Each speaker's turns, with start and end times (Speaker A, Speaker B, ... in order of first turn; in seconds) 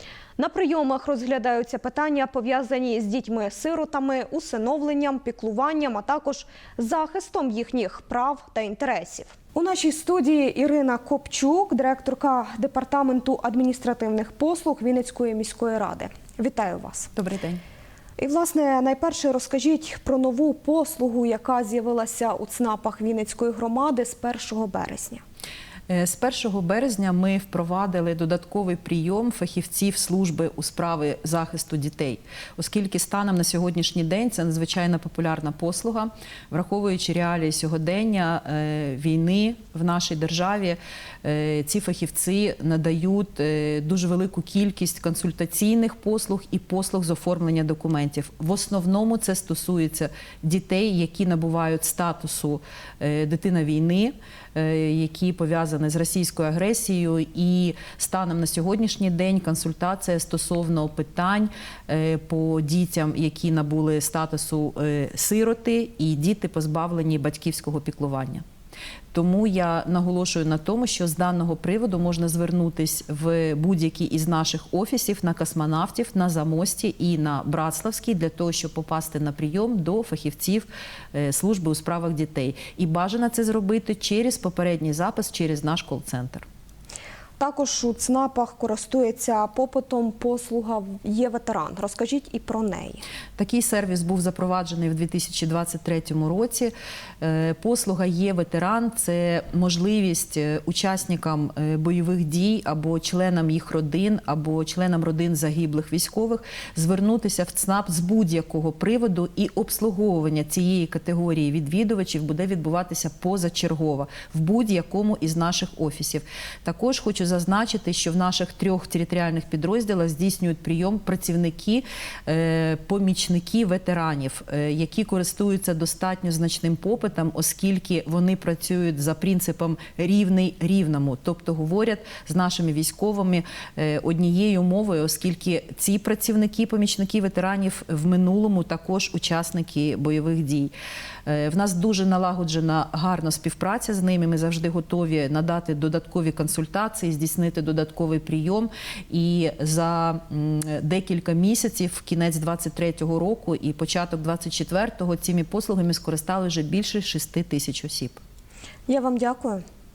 Speaker A: 0.4-17.1, 18.2-25.2, 87.4-93.0, 158.9-159.6
Speaker B: 17.1-17.6, 25.9-68.4, 69.1-86.5, 93.4-140.7, 141.3-158.2